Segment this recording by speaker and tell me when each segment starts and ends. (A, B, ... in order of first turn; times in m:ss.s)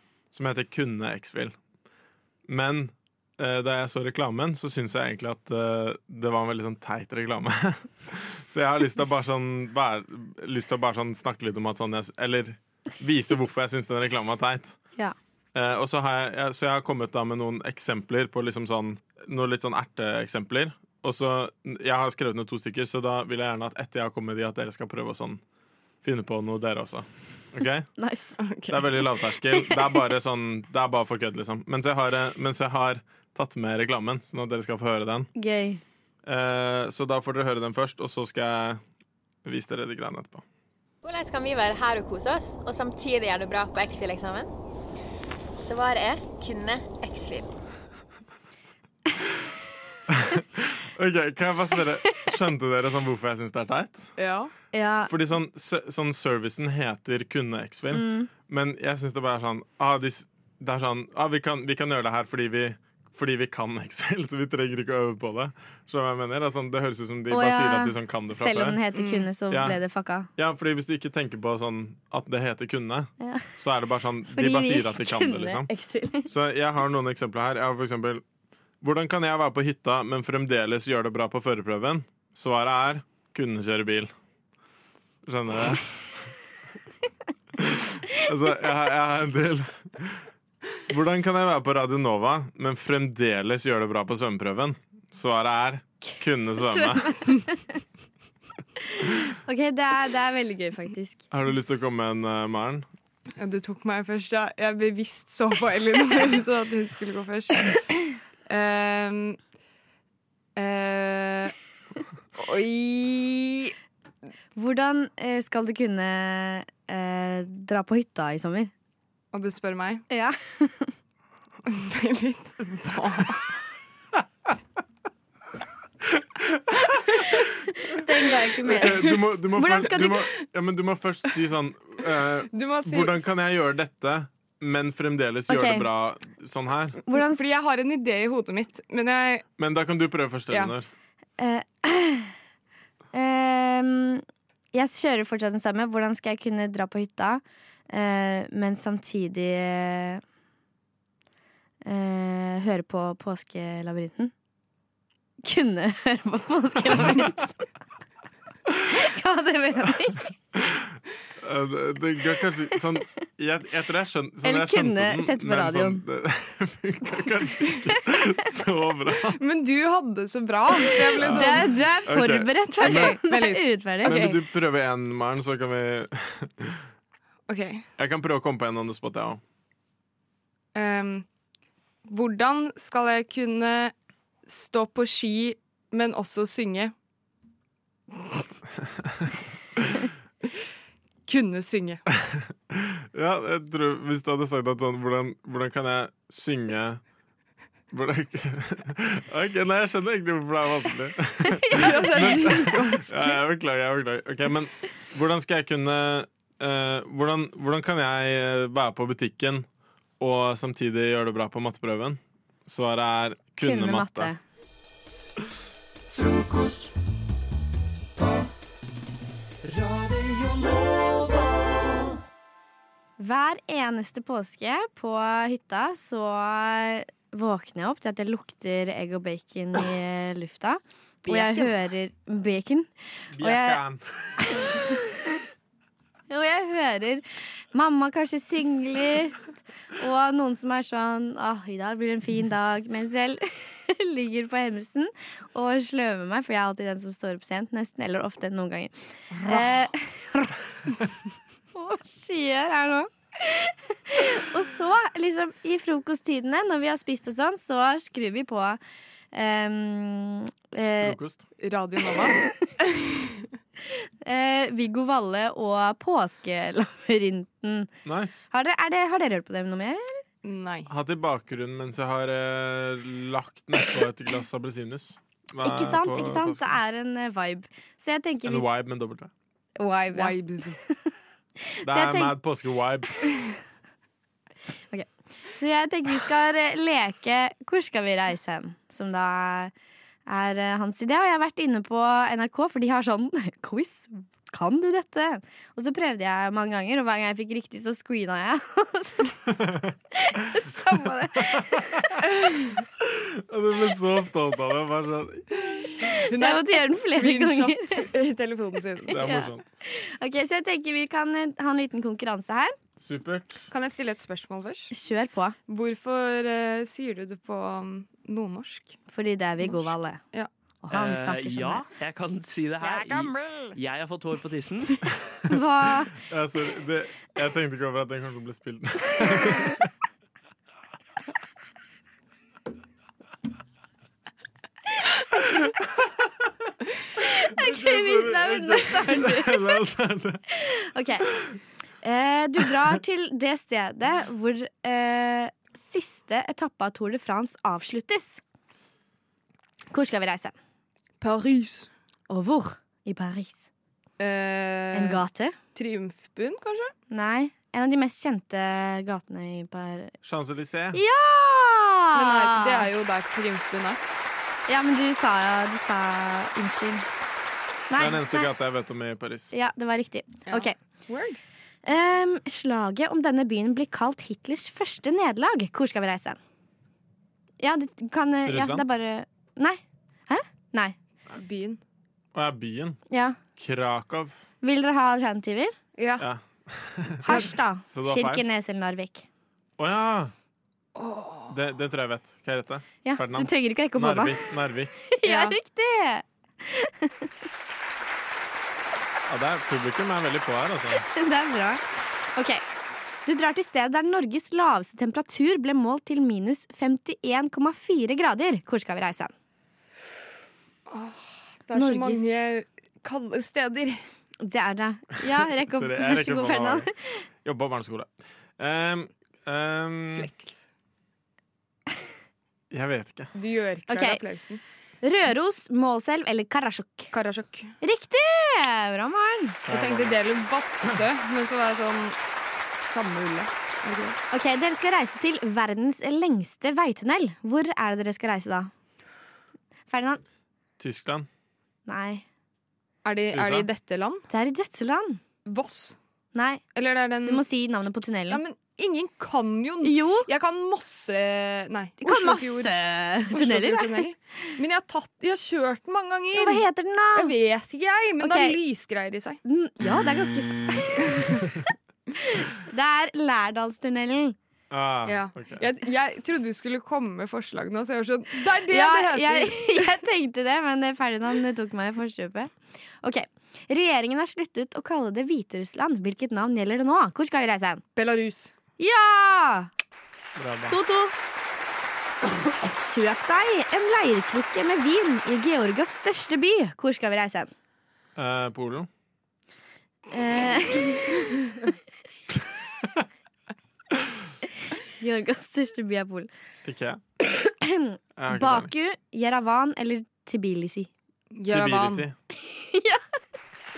0:00.3-0:01.5 A
0:02.5-0:14.7 A
0:15.5-0:25.4 A
0:26.0-0:27.9 A
0:28.0-0:28.4 B
0:28.4-0:28.8 C
0:28.7-0:35.3 A
0:29.5-0:29.8 B
0:35.4-0:35.8 B
0:36.2-0:38.8 A
0:39.4-0:40.4 A
0:41.0-0:44.5 D
0:45.6-0:47.5 D
0:50.1-0:54.1 A
0:54.2-0:54.5 C
0:54.7-0:55.1 B
0:55.1-1:08.8 A
0:57.9-0:58.3 B
1:07.3-1:10.3 B
1:08.9-1:09.3 C
1:09.5-1:09.8 A
1:10.4-1:15.7 A
1:13.2-1:13.5 B
1:14.3-1:16.3 B
1:16.3-1:18.2 A
1:18.8-1:24.1 A
1:25.2-1:26.3 A
1:27.6-1:30.2 A
1:30.9-1:37.1 A
1:36.6-1:37.6 B
1:38.9-1:41.2 B
1:41.3-1:42.9 A
1:43.4-1:49.4 C
1:50.6-1:51.5 C
1:52.4-1:53.7 C
1:54.6-1:58.7 B
1:59.3-2:00.0 C
2:00.1-2:00.9 B
2:01.6-2:03.5 C
2:07.9-2:10.2 B
2:08.6-2:17.0 A
2:12.5-2:13.1 C
2:15.5-2:15.9 B
2:17.1-2:17.4 B
2:17.1-2:19.4 C
2:19.6-2:20.9 A
2:21.4-2:22.3 B
2:23.1-2:30.2 B
2:31.8-2:34.3 B
2:35.4-2:37.5 B
2:38.9-2:40.3 B
2:40.5-2:49.4 A
2:44.4-2:46.0 B
2:49.4-2:51.7 C
2:51.1-2:53.2 A
2:51.3-2:54.4 B
2:52.8-2:54.2 C
2:54.0-2:56.8 A
2:57.5-2:57.8 C
2:58.0-2:59.4 A
3:00.7-3:01.2 C
3:02.0-3:03.9 C
3:04.4-3:06.9 C
3:11.2-3:12.0 C
3:12.7-3:17.0 A
3:17.9-3:29.6 A
3:21.7-3:23.4 C
3:30.2-3:34.3 A
3:33.6-3:34.4 B
3:43.2-3:53.8 B
3:51.2-3:51.6 C
3:53.3-3:54.3 A
3:54.6-3:55.1 B
3:56.3-4:08.9 B
4:09.4-4:10.6 B
4:11.7-4:18.8 B
4:19.3-4:21.2 B
4:21.0-4:21.4 A
4:21.6-4:23.4 C
4:24.2-4:27.9 B
4:28.0-4:28.4 A
4:28.5-4:30.2 B
4:30.4-4:30.9 C
4:30.9-4:36.8 A
4:35.6-4:38.7 B
4:38.4-4:39.3 A
4:39.8-4:40.3 B
4:40.1-4:40.8 C
4:41.8-4:42.3 B
4:41.8-4:43.3 A
4:44.9-4:49.7 B
4:50.2-4:59.4 B
4:59.5-4:59.9 A
5:00.2-5:02.0 B
5:01.4-5:02.1 A
5:03.0-5:05.7 A
5:06.1-5:09.4 C
5:06.4-5:08.0 B
5:09.1-5:09.6 A
5:09.2-5:12.7 B
5:13.0-5:13.7 A
5:13.7-5:14.9 C
5:14.9-5:15.6 B
5:15.7-5:19.0 C
5:19.1-5:20.2 B
5:19.6-5:20.5 C
5:20.8-5:21.8 B
5:20.9-5:25.0 E
5:25.5-5:26.1 B
5:26.1-5:29.9 A
5:35.4-5:35.7 A
5:37.2-5:39.8 B
5:37.6-5:40.4 A
5:40.5-5:41.3 B
5:42.0-5:48.4 B
5:49.9-5:50.5 B
5:51.2-5:51.9 C
5:52.3-5:53.6 B
5:54.2-5:55.2 C
5:54.9-5:55.6 B
5:55.7-5:56.9 C
5:57.1-6:00.1 B
6:00.2-6:01.0 A
6:00.9-6:02.9 B
6:02.1-6:04.0 C
6:04.7-6:07.0 B
6:07.9-6:08.5 B
6:08.0-6:09.5 A
6:09.5-6:10.8 B
6:10.5-6:11.4 C
6:11.8-6:16.4 B
6:17.6-6:21.0 B
6:18.5-6:18.8 A
6:21.3-6:21.8 C
6:22.3-6:23.0 A
6:23.1-6:23.4 B
6:23.6-6:24.4 A
6:24.6-6:25.7 B
6:26.0-6:26.2 C
6:26.2-6:28.4 A
6:27.2-6:29.2 B
6:29.8-6:30.3 A
6:30.9-6:31.5 C
6:31.5-6:35.0 A
6:33.0-6:34.4 B
6:35.1-6:37.3 B
6:35.2-6:35.6 C
6:39.3-6:41.0 A
6:41.1-6:42.6 B
6:43.2-6:49.3 B
6:50.9-6:54.0 C
6:51.7-6:52.3 B
6:54.4-6:57.2 B
6:55.7-6:56.9 A
6:57.4-7:00.3 A
7:00.1-7:00.6 C
7:02.7-7:03.3 A
7:03.3-7:04.6 C
7:03.9-7:04.2 B
7:05.0-7:07.1 B
7:07.1-7:07.7 C
7:07.8-7:09.6 B
7:09.7-7:10.2 A
7:09.7-7:12.2 C
7:12.7-7:14.2 C
7:14.3-7:18.7 B
7:19.9-7:20.2 B
7:20.8-7:21.3 A
7:21.9-7:22.2 B
7:23.0-7:24.2 C
7:23.3-7:23.7 A
7:24.3-7:25.2 B
7:25.4-7:26.0 C
7:26.3-7:26.6 B
7:26.7-7:27.4 C
7:27.2-7:28.4 B
7:28.3-7:32.8 C
7:29.8-7:30.3 B
7:32.0-7:34.0 B
7:33.3-7:39.4 C
7:36.3-7:37.3 B
7:38.2-7:38.6 B
7:39.4-7:41.3 B
7:42.3-7:44.4 B
7:44.7-7:45.6 A
7:45.0-7:49.9 C
7:48.7-7:57.8 B
7:58.0-7:58.5 C
7:58.8-7:59.7 B
8:00.4-8:00.8 A
8:00.7-8:01.1 B
8:02.6-8:07.5 B
8:08.2-8:08.9 A
8:10.1-8:11.2 B
8:15.0-8:16.3 B
8:16.6-8:17.0 A
8:17.6-8:20.9 B
8:18.2-8:18.7 A
8:21.3-8:22.0 C
8:21.5-8:22.1 A
8:22.4-8:23.0 B